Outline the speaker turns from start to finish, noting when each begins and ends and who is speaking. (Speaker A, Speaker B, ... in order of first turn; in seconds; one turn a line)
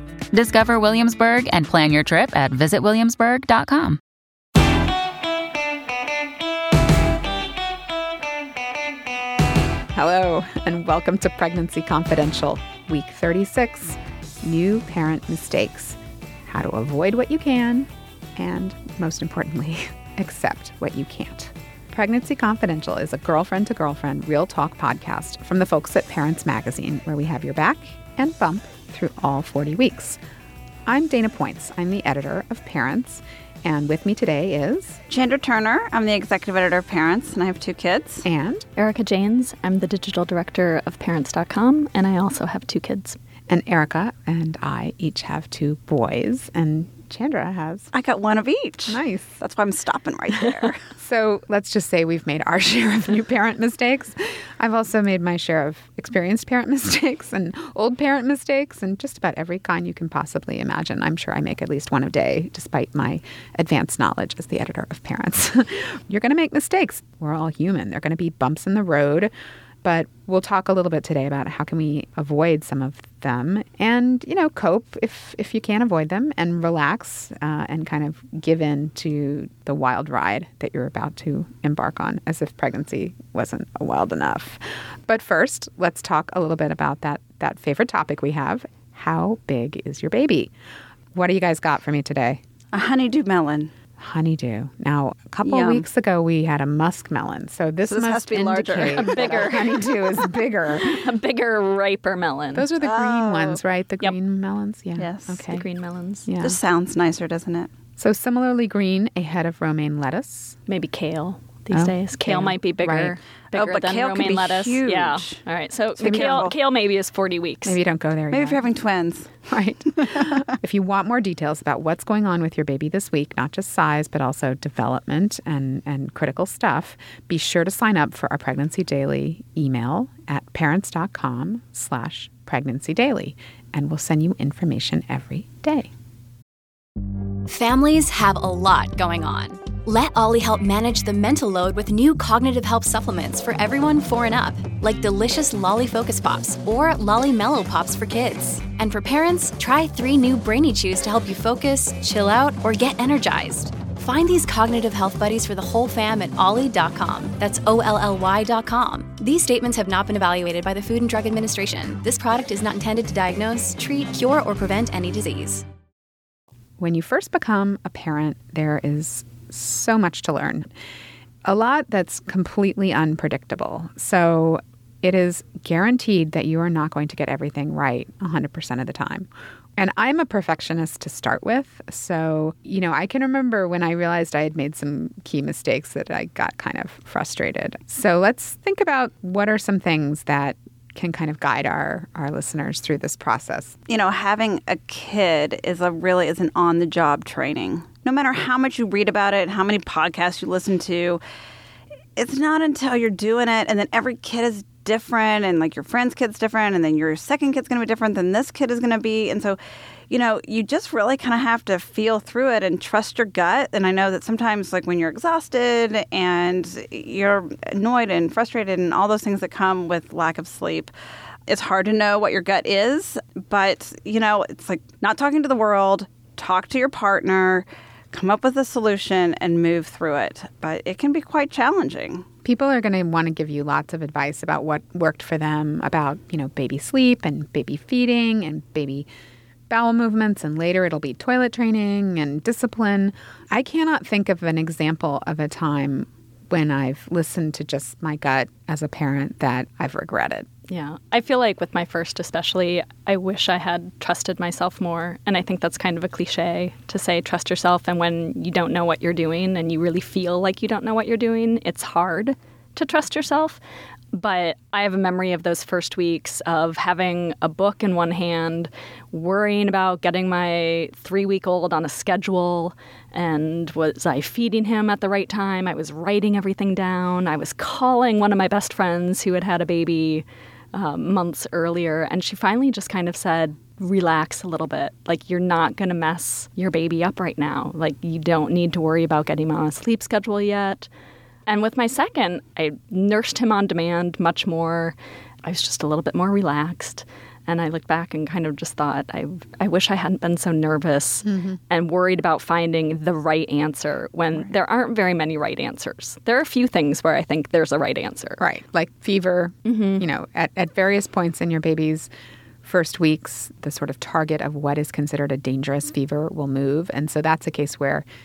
Speaker A: 0.3-4.0
Speaker B: 9.9-30.2
Speaker B: 30.9-35.0
Speaker C: 35.1-38.2
Speaker B: 38.2-38.7
Speaker D: 38.8-43.2
Speaker B: 43.5-47.9
Speaker C: 47.9-50.8
Speaker B: 48.9-49.4
Speaker B: 51.0-69.3
Speaker B: 69.8-90.5
Speaker B: 91.1-92.4
Speaker C: 92.7-93.7
Speaker B: 94.0-101.0
Speaker C: 95.4-95.9
Speaker C: 97.9-99.5
Speaker D: 98.9-102.7
Speaker B: 102.5-105.7
Speaker C: 102.8-103.6
Speaker C: 105.0-105.5
Speaker D: 105.5-106.3
Speaker B: 106.3-106.6
Speaker C: 106.4-107.7
Speaker B: 108.0-110.6
Speaker D: 110.7-117.8
Speaker B: 111.7-113.2
Speaker C: 113.5-115.4
Speaker C: 116.0-116.5
Speaker B: 116.0-116.5
Speaker B: 117.6-118.7
Speaker C: 118.3-119.3
Speaker B: 119.5-135.9
Speaker E: 137.5-165.6
Speaker B: 166.8-170.7
Speaker B: 171.4-193.8
Speaker C: 193.9-201.2
Speaker C: 202.2-209.6
Speaker C: 210.1-220.9
Speaker C: 221.5-232.2
Speaker B: 232.4-239.1
Speaker B: 239.7-250.5
Speaker D: 250.7-263.6
Speaker D: 264.1-290.9
Speaker D: 291.5-308.4
Speaker B: 301.2-301.6
Speaker B: 308.4-312.1
Speaker D: 309.6-310.0
Speaker B: 312.6-318.1